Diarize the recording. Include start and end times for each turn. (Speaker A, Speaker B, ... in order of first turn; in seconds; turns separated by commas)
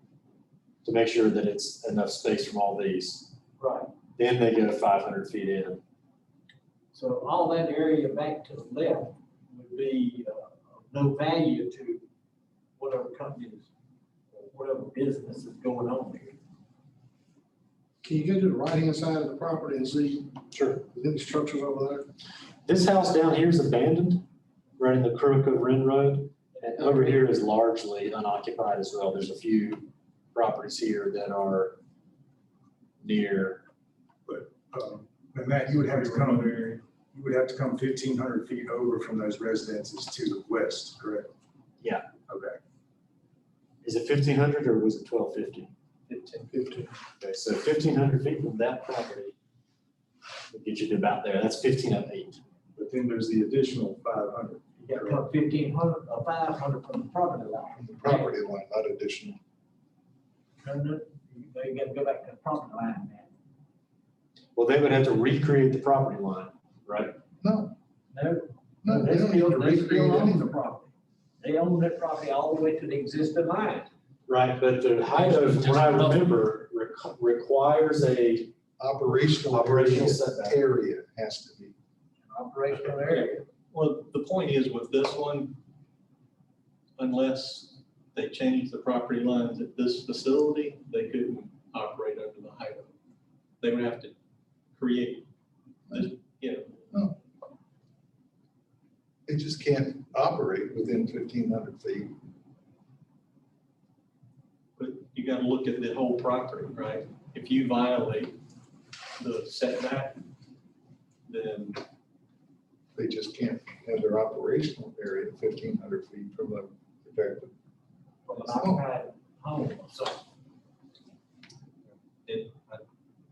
Speaker A: 0.8-3.4, Speaker B: 3.6-4.0, Speaker A: 4.2-5.8, Speaker B: 6.9-12.1, Speaker B: 12.8-13.7, Speaker B: 14.3-16.4, Speaker C: 18.0-22.1, Speaker A: 20.5-20.9, Speaker A: 22.6-24.3, Speaker A: 24.8-31.8, Speaker B: 26.7-27.2, Speaker A: 33.0-33.6, Speaker D: 34.3-41.3, Speaker E: 35.7-36.8, Speaker D: 42.3-42.6, Speaker A: 43.8-45.7, Speaker E: 46.1-47.0, Speaker A: 47.2-49.4, Speaker A: 50.5-52.4, Speaker D: 52.8-55.2, Speaker B: 54.8-58.3, Speaker C: 57.8-59.4, Speaker B: 60.6-63.3, Speaker A: 64.5-67.2, Speaker C: 67.4-67.8, Speaker B: 68.1-73.9, Speaker C: 68.8-70.5, Speaker A: 74.3-78.5, Speaker B: 75.2-76.2, Speaker C: 78.8-81.7, Speaker A: 79.4-80.6, Speaker B: 82.3-83.5, Speaker E: 82.8-85.6, Speaker E: 87.0-92.9, Speaker E: 93.6-94.1, Speaker E: 94.8-95.3, Speaker E: 95.9-96.7, Speaker C: 99.3-102.1, Speaker E: 104.8-108.4, Speaker E: 109.2-110.2, Speaker E: 111.3-111.8, Speaker C: 113.0-117.5, Speaker B: 118.2-120.2, Speaker C: 118.5-118.8, Speaker E: 122.3-122.8